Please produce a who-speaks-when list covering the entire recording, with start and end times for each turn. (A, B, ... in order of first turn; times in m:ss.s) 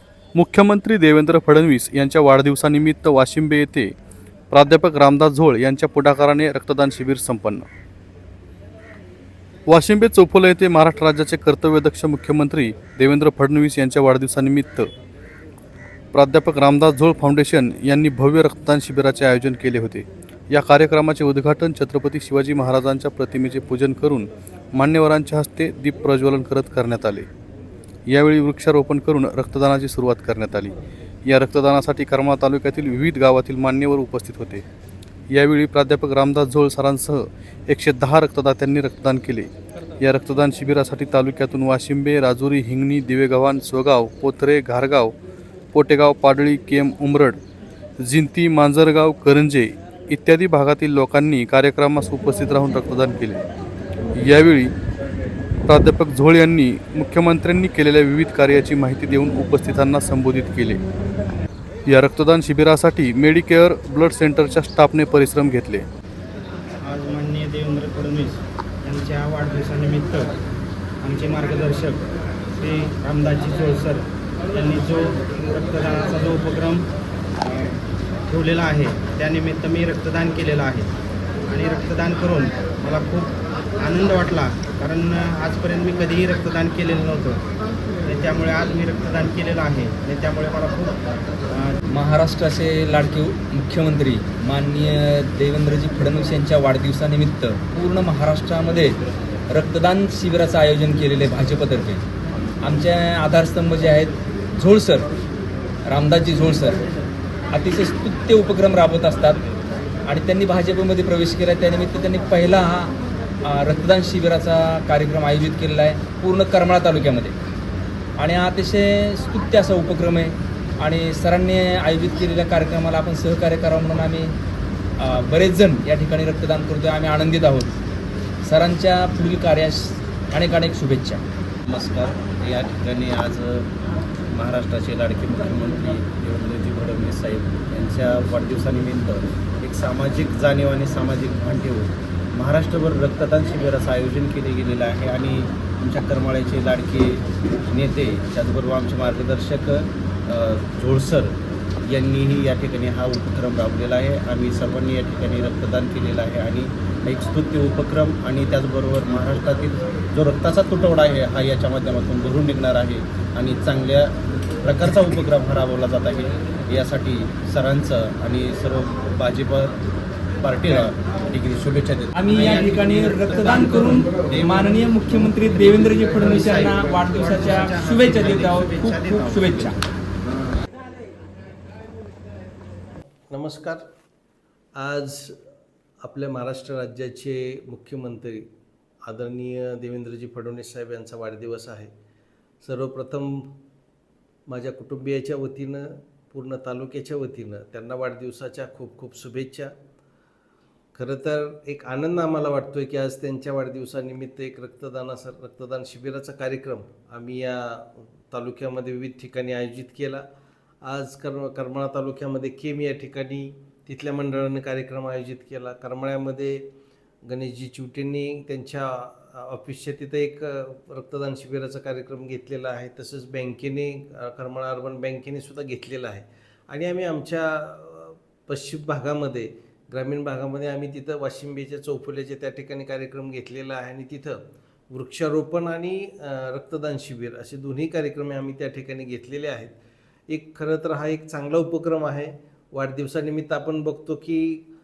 0:00.4-0:03.9 A
0:04.5-0:07.6 A
0:09.7-0:14.9 A
0:16.1-0:27.3 A
0:28.1-0:30.7 A
0:31.2-0:34.6 A
0:35.3-0:45.1 A
0:45.7-0:47.4 A
0:48.0-0:53.4 A
0:54.2-0:54.7 A
0:55.7-1:00.8 A
1:01.9-1:05.8 A
1:06.8-1:10.3 B
1:11.0-1:12.0 B
1:12.6-1:16.9 B
1:17.4-1:20.9 B
1:21.5-1:27.4 B
1:28.0-1:31.0 B
1:31.5-1:31.8 B
1:31.9-1:42.0 C
1:42.6-1:45.1 C
1:45.8-1:46.8 C
1:47.5-1:49.4 C
1:50.0-1:57.3 C
1:58.2-2:04.3 C
2:05.0-2:07.8 C
2:08.4-2:11.2 C
2:11.7-2:13.7 D
2:14.3-2:49.8 D
2:50.4-2:52.7 D
2:52.1-2:59.8 C
2:52.3-2:54.0 B
2:54.2-2:54.7 D
2:56.2-2:59.4 B
2:59.4-2:59.7 D
3:03.3-3:03.8 E
3:04.8-3:05.4 E
3:06.0-3:08.4 E
3:09.0-3:11.9 E
3:12.6-3:13.4 E
3:14.5-3:19.7 E
3:20.9-3:30.2 E
3:30.8-3:36.7 E
3:37.2-3:54.4 E
3:54.9-3:59.8 E
4:00.3-4:04.6 E